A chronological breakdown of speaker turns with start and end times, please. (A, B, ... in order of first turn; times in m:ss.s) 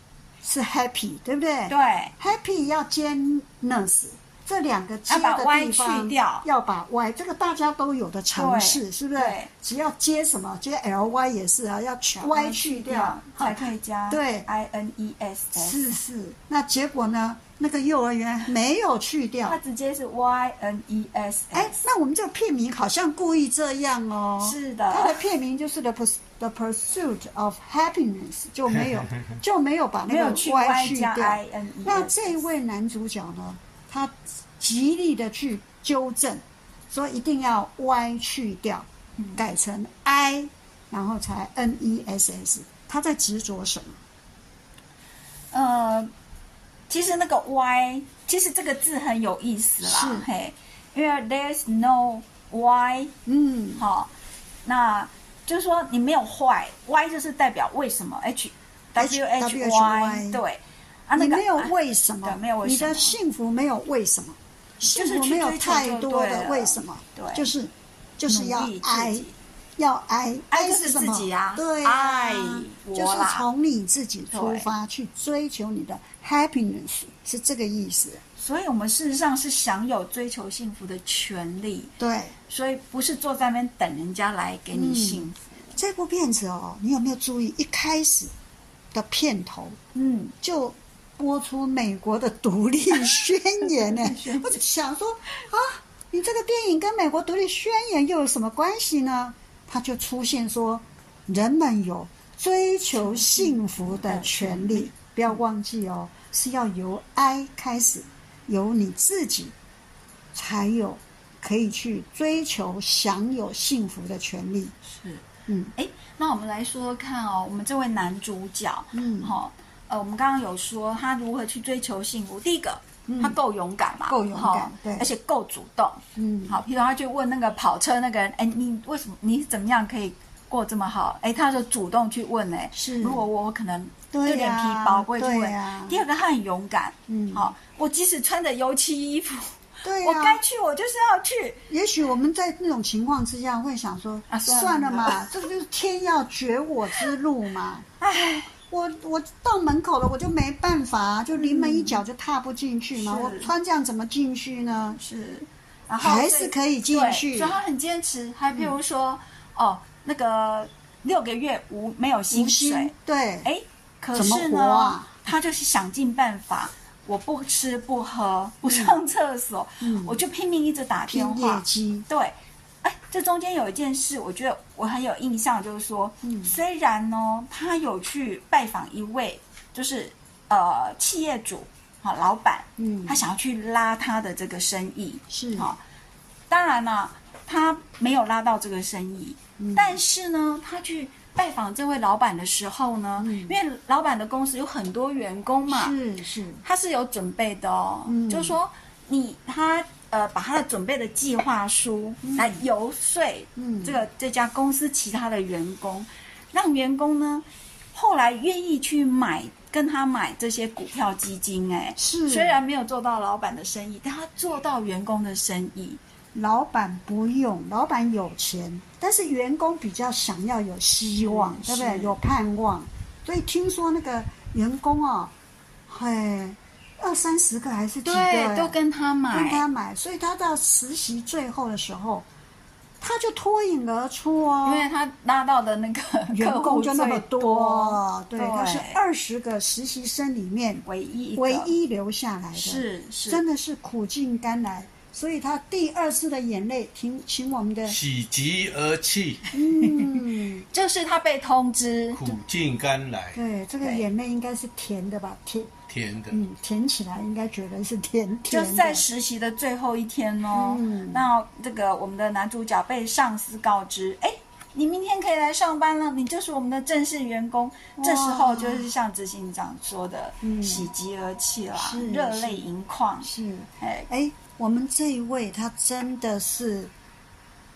0:00.4-0:14.5 A
0:01.7-0:02.1 B
0:05.1-0:06.4 B
0:08.3-0:09.5 B
0:12.2-0:15.8 B
0:15.5-0:19.6 A
0:19.4-0:21.8 B
0:21.5-0:44.0 A
0:24.4-0:25.2 B
0:30.1-0:32.4 B
0:39.2-0:39.4 B
0:45.5-0:46.1 B
0:46.9-0:53.1 B
0:49.8-0:50.2 A
0:53.2-0:53.8 A
0:53.8-0:54.1 B
0:54.6-1:03.2 B
0:59.0-1:00.4 A
1:01.2-1:18.2 A
1:04.8-1:07.5 B
1:08.3-1:09.3 B
1:10.5-1:13.5 B
1:14.3-1:14.7 B
1:18.4-1:21.9 B
1:22.0-1:22.3 A
1:22.5-1:25.8 B
1:24.7-1:28.3 A
1:28.9-1:29.8 A
1:29.9-1:30.3 B
1:30.4-1:49.5 A
1:33.0-1:34.6 B
1:42.9-1:45.4 B
1:50.3-1:54.7 A
1:54.8-1:55.2 B
1:55.5-1:55.7 A
1:55.7-2:21.6 B
1:58.9-1:59.3 A
2:03.1-2:03.4 A
2:04.1-2:05.1 A
2:06.2-2:06.6 A
2:12.7-2:13.2 A
2:14.1-2:16.0 A
2:17.1-2:17.5 A
2:19.8-2:20.4 A
2:21.7-2:27.9 A
2:24.3-2:25.2 B
2:28.0-2:28.5 B
2:28.7-2:35.0 A
2:31.3-2:32.0 B
2:32.9-2:33.5 B
2:34.9-2:42.9 B
2:36.0-2:37.6 A
2:42.3-2:43.5 A
2:43.4-3:05.8 B
2:44.1-2:45.1 A
2:48.6-2:49.0 A
2:49.8-2:50.2 A
2:51.1-2:52.0 A
2:56.2-2:56.5 A
3:02.8-3:03.2 A
3:05.3-3:05.7 A
3:06.5-3:15.9 B
3:09.6-3:10.0 A
3:13.2-3:13.6 A
3:15.7-3:16.6 A
3:16.6-3:36.0 B
3:18.1-3:18.6 A
3:22.2-3:22.6 A
3:23.6-3:24.0 A
3:32.0-3:32.6 A
3:36.3-3:45.3 A
3:41.2-3:42.2 B
3:45.9-3:48.8 A
3:48.0-3:49.6 B
3:49.3-3:52.3 A
3:53.0-3:54.9 A
3:54.6-3:59.0 B
3:56.3-4:00.8 A
4:00.8-4:01.7 B
4:01.4-4:08.0 A
4:02.5-4:03.4 B
4:07.9-4:09.5 C
4:09.5-4:10.7 A
4:09.7-4:12.4 B
4:12.1-4:13.4 C
4:13.3-4:15.7 A
4:15.9-4:16.4 C
4:16.3-4:19.0 A
4:18.5-4:33.3 B
4:20.5-4:21.2 A
4:28.0-4:28.9 A
4:30.4-4:30.9 A
4:31.7-4:32.7 A
4:33.2-4:36.9 A
4:33.8-4:34.1 B